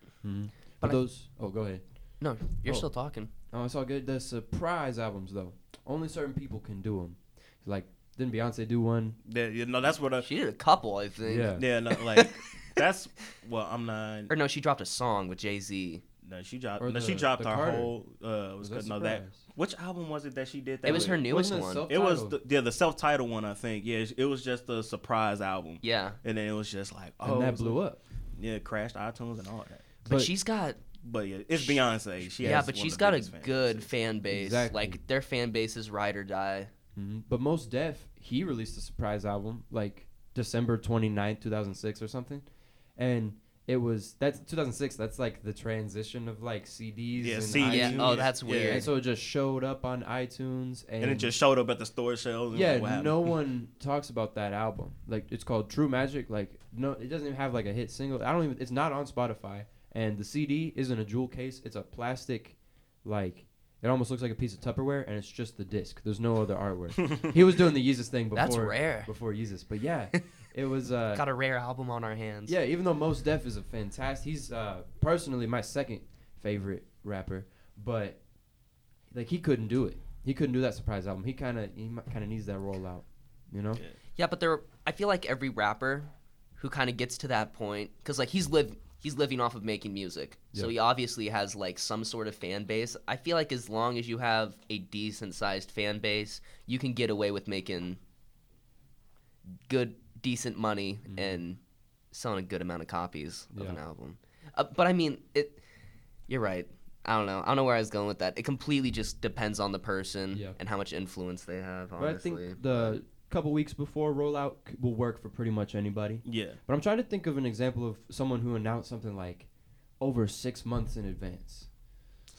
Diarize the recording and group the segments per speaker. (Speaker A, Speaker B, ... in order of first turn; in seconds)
Speaker A: 0.2-9.2, 11.2-11.6, 16.8-17.9, 18.6-19.4, 20.9-22.4, 27.2-28.0, 30.0-30.3, 34.3-35.0, 37.0-51.3, 52.5-71.2, 72.5-78.3, 79.1-83.8, 101.1-101.4, 103.5-103.8, 110.3-110.5, 112.0-121.7
Speaker B: 0.8-1.1, 2.2-3.3, 10.2-12.8, 14.3-16.0, 20.8-21.8, 25.8-26.2, 30.0-30.8, 31.5-31.9, 32.4-36.7, 47.6-48.9, 68.3-69.1, 71.1-72.5, 84.2-98.0, 99.7-101.6, 102.1-105.6, 106.3-113.0
Speaker C: 9.2-10.3, 11.6-14.3, 16.2-21.2, 21.9-27.8, 28.3-29.9, 31.0-33.9, 47.2-48.9, 51.0-53.3, 116.2-116.6